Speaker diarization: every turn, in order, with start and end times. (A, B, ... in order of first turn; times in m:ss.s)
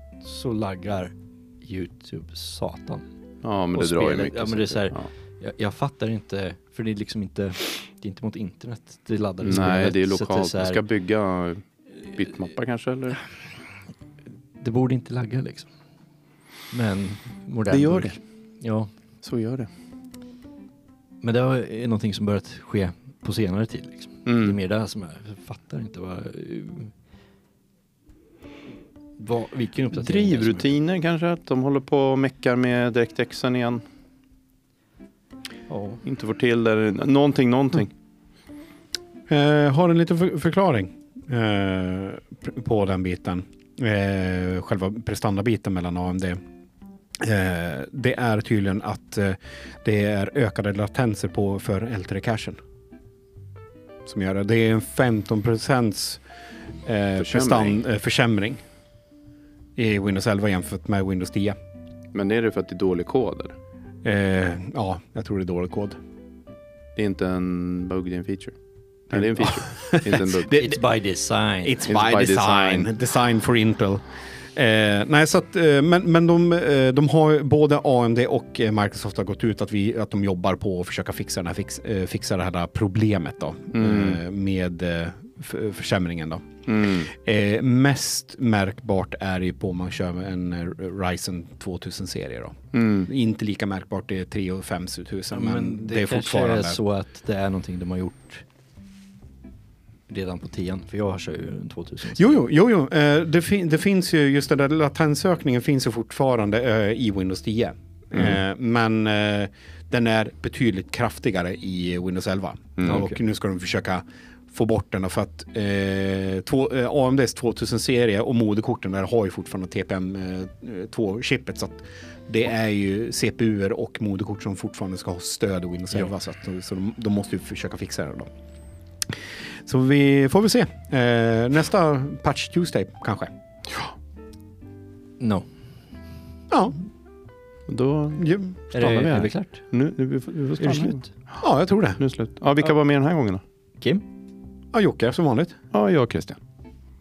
0:00.2-0:03.0 A
0:03.4-0:05.1 B
0:03.7-0:10.8 A
0:09.4-0:13.2 B
0:14.6-0:15.7 A
0:16.7-0:18.9 A
0:17.7-0:18.2 B
0:19.2-0:19.7 B
0:21.2-0:26.9 A
0:24.2-0:24.6 B
0:29.2-0:30.7 A
0:29.9-0:33.8 B
0:35.7-0:36.0 A
0:36.0-0:37.9 B
0:39.3-0:46.4 C
0:47.2-0:52.6 C
0:54.0-0:56.2 C
0:56.8-0:58.6 C
0:57.2-0:57.8 B
0:59.8-1:01.6 C
1:02.1-1:03.5 B
1:04.0-1:06.0 C
1:07.0-1:08.6 B
1:09.1-1:10.5 B
1:09.2-1:10.8 C
1:10.5-1:11.8 A
1:11.6-1:14.0 C
1:11.8-1:12.9 B
1:14.5-1:26.5 C
1:23.7-1:24.2 B
1:26.7-1:27.1 B
1:27.1-1:36.8 C
1:32.7-1:33.1 B
1:35.3-1:38.4 A
1:40.1-1:42.4 A
1:42.1-2:08.3 C
1:52.8-1:53.0 B
1:52.8-1:53.2 A
2:09.6-2:13.3 C
2:15.2-2:15.5 A
2:16.5-2:16.8 C
2:17.7-2:21.4 B
2:18.2-2:18.5 C
2:18.7-2:19.6 A
2:21.4-2:22.0 C
2:22.0-2:23.4 B
2:24.7-2:25.6 C
2:25.7-2:26.4 B